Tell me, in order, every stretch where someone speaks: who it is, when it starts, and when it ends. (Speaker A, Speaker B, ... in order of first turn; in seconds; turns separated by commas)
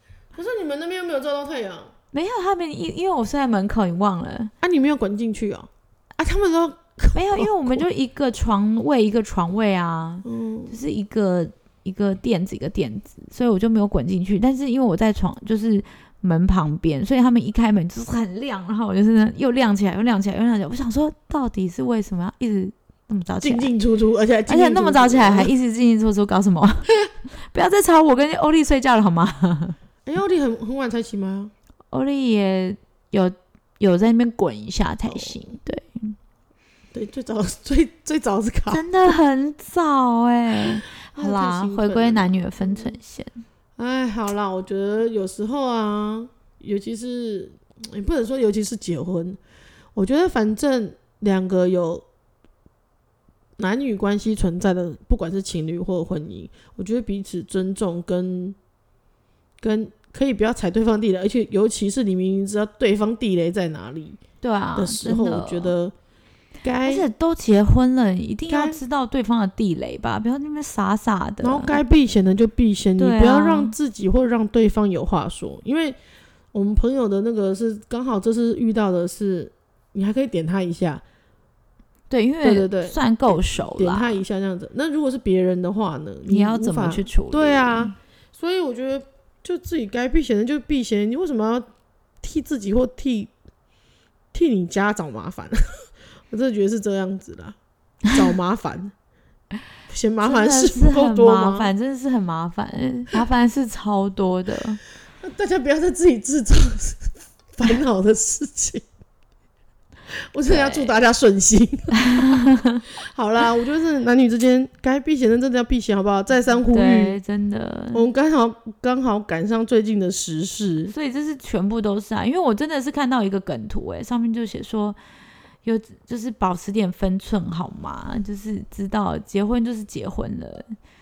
Speaker A: 0.3-1.9, Speaker B: 2.1-4.5, Speaker A: 4.6-7.8, Speaker B: 7.2-23.7, Speaker A: 10.2-10.8, Speaker A: 23.4-25.5, Speaker B: 24.5-26.9, Speaker B: 27.4-29.8, Speaker A: 30.1-31.5, Speaker B: 31.9-36.2, Speaker A: 35.1-35.6, Speaker A: 36.9-39.1, Speaker B: 38.7-43.4, Speaker A: 40.6-42.9, Speaker A: 43.8-49.4, Speaker A: 50.0-52.0, Speaker A: 53.6-58.6, Speaker A: 59.6-64.2, Speaker B: 64.4-65.7, Speaker A: 64.8-65.9, Speaker A: 66.6-67.1, Speaker B: 66.8-71.8, Speaker A: 68.5-68.8, Speaker A: 71.4-76.0, Speaker B: 73.0-73.8, Speaker A: 76.5-81.0, Speaker B: 82.1-84.2, Speaker A: 82.4-91.7, Speaker B: 86.3-87.9, Speaker A: 92.2-93.3, Speaker A: 94.3-97.6, Speaker A: 98.1-98.9, Speaker A: 99.9-101.7, Speaker B: 100.2-104.8, Speaker A: 105.2-108.8, Speaker A: 110.3-112.5, Speaker B: 110.5-110.9, Speaker B: 112.1-112.8, Speaker A: 113.0-117.2, Speaker B: 116.7-118.1, Speaker A: 117.9-120.9, Speaker B: 120.9-125.0, Speaker B: 125.7-130.8